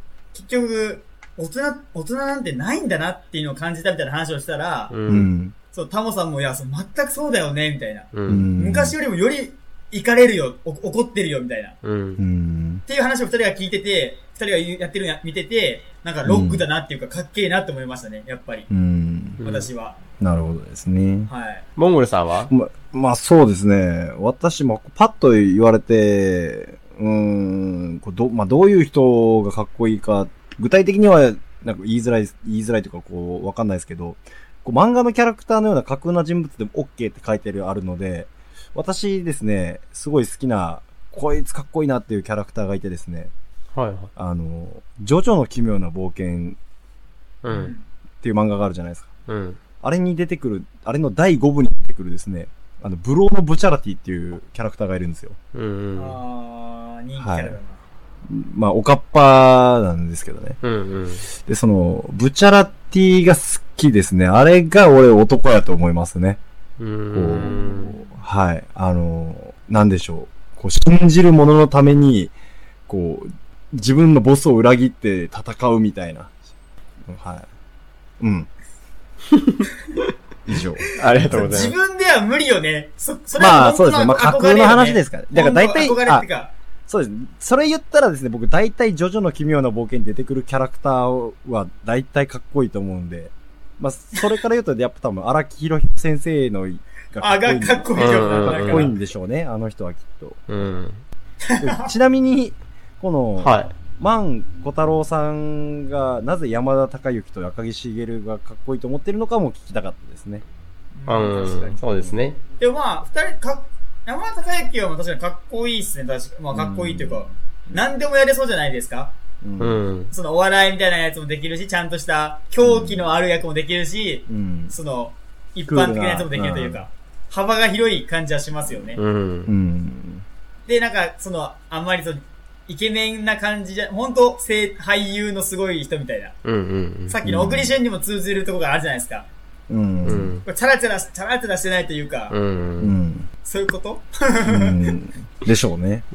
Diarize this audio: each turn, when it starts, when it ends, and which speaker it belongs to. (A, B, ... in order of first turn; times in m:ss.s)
0:00.3-0:04.9 A
0:04.9-0:05.3 B
0:05.1-0:05.5 C
0:05.7-0:11.8 A
0:08.1-0:08.5 B
0:08.3-0:09.0 C
0:11.8-0:12.2 B
0:12.2-0:12.8 C
0:12.9-0:18.7 A
0:16.2-0:16.6 C
0:18.7-0:19.4 C
0:19.4-0:19.7 B
0:19.4-0:20.0 A
0:20.2-0:21.3 C
0:21.3-0:21.6 A
0:21.8-0:22.5 B
0:22.5-0:43.3 C
0:43.7-0:44.1 B
0:44.2-0:46.6 C
0:47.4-0:47.7 B
0:47.5-0:47.8 A
0:48.2-0:49.1 C
0:49.3-0:49.6 B
0:49.8-0:55.4 C
0:55.5-0:56.2 B
0:56.0-0:57.8 A
0:57.2-0:57.6 C
0:58.3-1:00.6 C
1:00.6-1:01.2 B
1:01.4-1:06.4 C
1:06.8-1:08.0 B
1:07.1-1:12.3 C
1:12.9-1:16.3 C
1:17.0-1:17.5 C
1:18.2-1:18.5 C
1:19.3-1:19.6 B
1:20.5-1:21.5 C
1:20.9-1:21.7 B
1:21.2-1:26.5 A
1:23.4-1:26.2 C
1:26.9-1:40.5 C
1:37.2-1:39.0 A
1:38.0-1:38.9 B
1:40.5-1:41.0 B
1:41.4-1:41.9 A
1:41.6-1:50.4 C
1:43.4-1:43.7 B
1:51.0-1:51.8 A
1:51.1-1:52.4 B
1:52.6-1:59.1 A
1:56.5-1:57.8 C
1:59.4-1:59.8 C
1:59.6-2:00.1 B
2:00.1-2:09.0 A
2:02.6-2:03.1 C
2:04.3-2:04.7 C
2:05.7-2:06.8 C
2:09.0-2:09.5 B
2:09.4-2:10.2 C
2:10.7-2:16.4 A
2:16.4-2:17.1 B
2:17.1-2:19.3 A
2:17.2-2:17.7 C
2:19.7-2:20.4 C
2:20.0-2:20.4 B
2:20.4-2:22.3 A
2:22.3-2:22.9 B
2:22.8-2:23.3 C
2:23.4-2:25.0 A
2:24.4-2:26.0 C